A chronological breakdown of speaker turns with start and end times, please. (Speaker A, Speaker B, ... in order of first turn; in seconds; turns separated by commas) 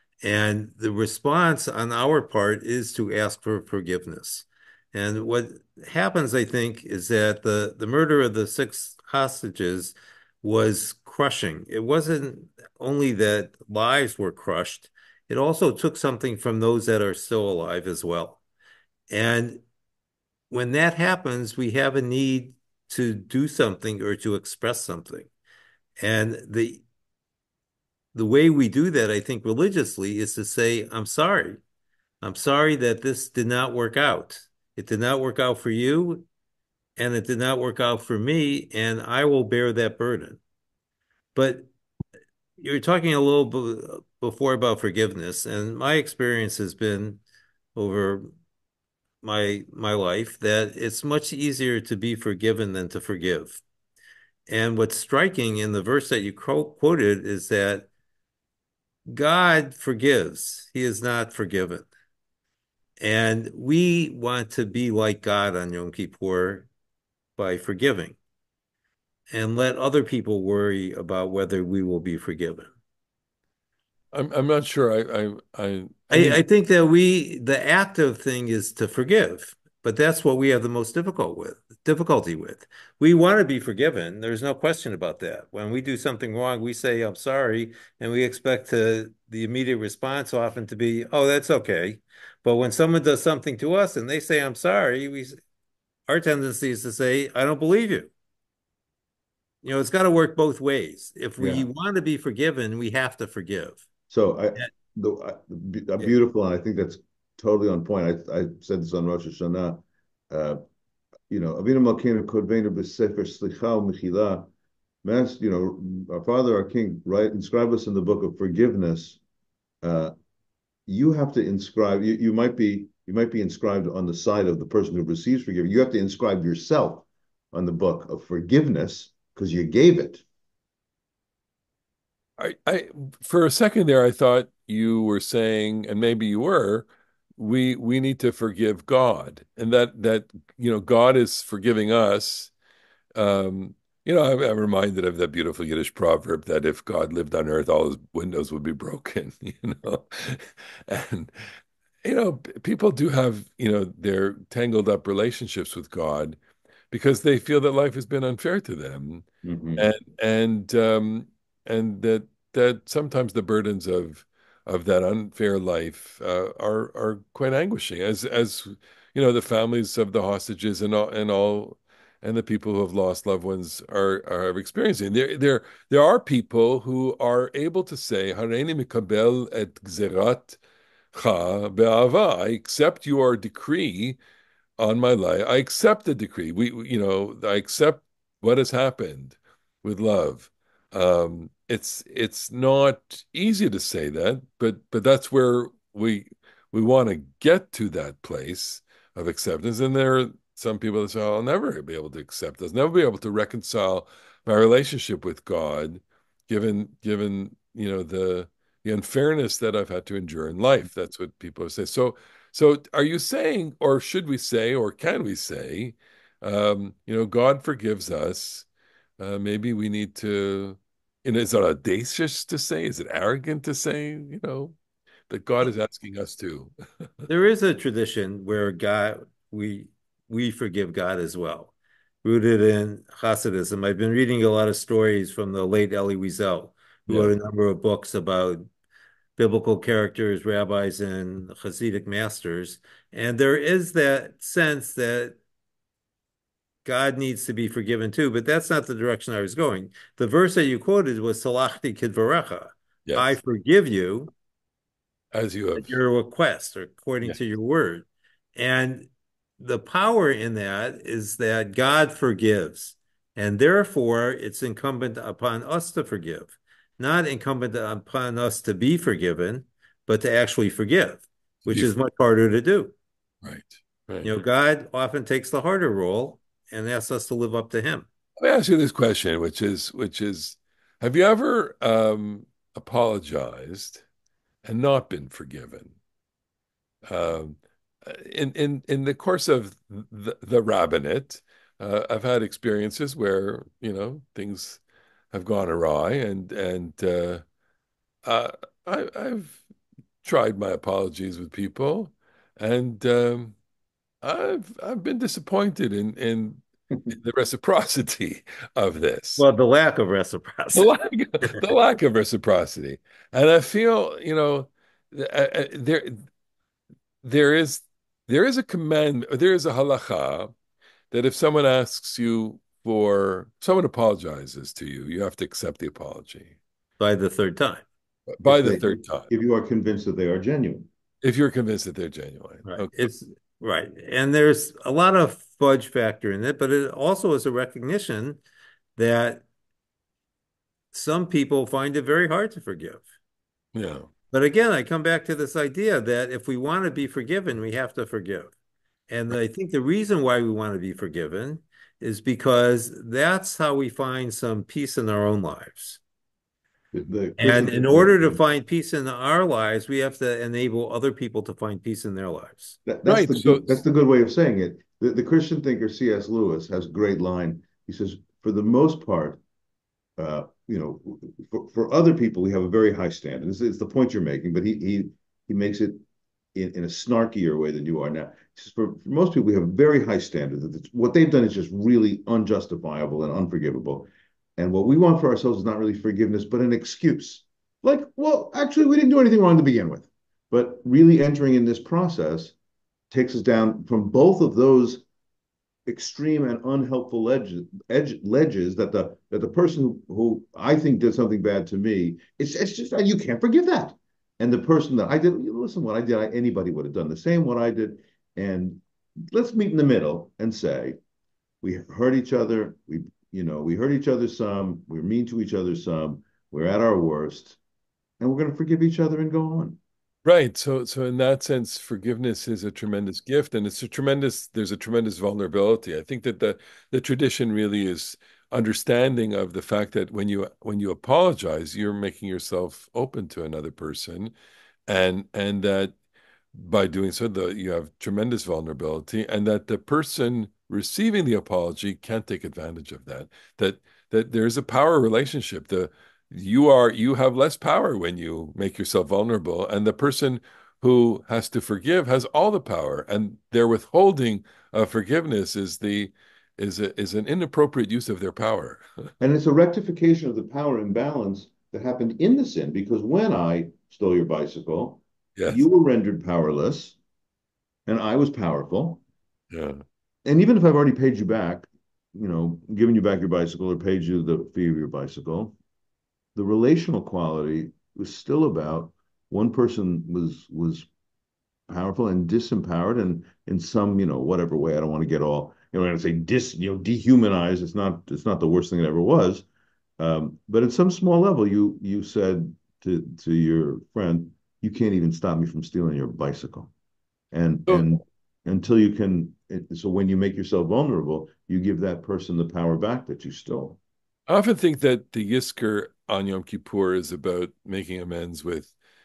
Speaker A: 0.2-18.4, Speaker A: 19.1-19.6, Speaker A: 20.5-25.3, Speaker A: 26.0-26.8, Speaker A: 28.1-31.6, Speaker A: 32.2-36.2, Speaker A: 37.0-40.4, Speaker A: 41.3-41.7, Speaker A: 42.6-47.2, Speaker A: 47.7-48.3, Speaker A: 49.2-53.6, Speaker A: 54.5-57.9, Speaker A: 59.1-61.9, Speaker A: 63.0-66.7, Speaker A: 67.4-68.2, Speaker A: 69.3-72.7, Speaker B: 74.1-76.4, Speaker A: 76.1-95.4, Speaker A: 96.1-98.1, Speaker A: 99.6-103.8, Speaker C: 101.4-101.7, Speaker C: 104.1-110.6, Speaker C: 111.3-114.5, Speaker C: 115.0-119.2, Speaker C: 119.8-120.1, Speaker C: 120.9-130.2, Speaker B: 132.4-142.5, Speaker B: 143.1-156.4, Speaker B: 156.9-159.2, Speaker C: 159.4-159.8, Speaker B: 159.8-180.6, Speaker B: 181.1-184.2, Speaker B: 184.8-218.7, Speaker B: 219.2-224.8, Speaker B: 225.3-227.3, Speaker A: 227.3-238.6, Speaker B: 237.1-237.3, Speaker A: 239.4-245.4, Speaker A: 246.8-254.3, Speaker B: 253.1-253.3, Speaker B: 255.3-256.0, Speaker A: 255.8-259.1, Speaker A: 259.6-272.9, Speaker B: 271.7-271.9, Speaker B: 273.4-274.3, Speaker A: 274.2-278.1, Speaker B: 278.4-284.0, Speaker B: 284.6-285.9, Speaker B: 287.1-297.4, Speaker B: 298.2-299.6, Speaker B: 300.2-303.6, Speaker B: 304.2-309.4, Speaker A: 309.4-311.6, Speaker B: 310.7-316.2, Speaker B: 317.2-320.5, Speaker B: 321.1-326.6, Speaker A: 327.0-327.8, Speaker B: 328.3-329.3, Speaker C: 328.4-330.9, Speaker B: 331.2-333.1, Speaker A: 332.6-338.4, Speaker A: 338.9-339.4, Speaker A: 340.9-343.1, Speaker B: 343.7-344.1, Speaker A: 344.3-348.5, Speaker A: 349.1-356.0, Speaker C: 356.9-358.4, Speaker A: 357.4-362.8, Speaker C: 362.9-369.4, Speaker B: 363.0-363.8, Speaker C: 370.2-376.0, Speaker C: 376.5-392.5, Speaker C: 393.1-395.0, Speaker C: 395.9-411.0, Speaker C: 411.6-417.6, Speaker C: 418.2-419.8, Speaker B: 420.2-434.3, Speaker B: 434.9-435.9, Speaker B: 436.5-459.1, Speaker C: 459.2-467.0, Speaker B: 465.4-465.6, Speaker C: 467.9-469.0, Speaker B: 469.5-469.8, Speaker C: 470.2-475.6, Speaker C: 476.3-480.9, Speaker C: 481.7-489.4, Speaker C: 490.0-496.7, Speaker C: 497.3-503.8, Speaker B: 504.3-508.7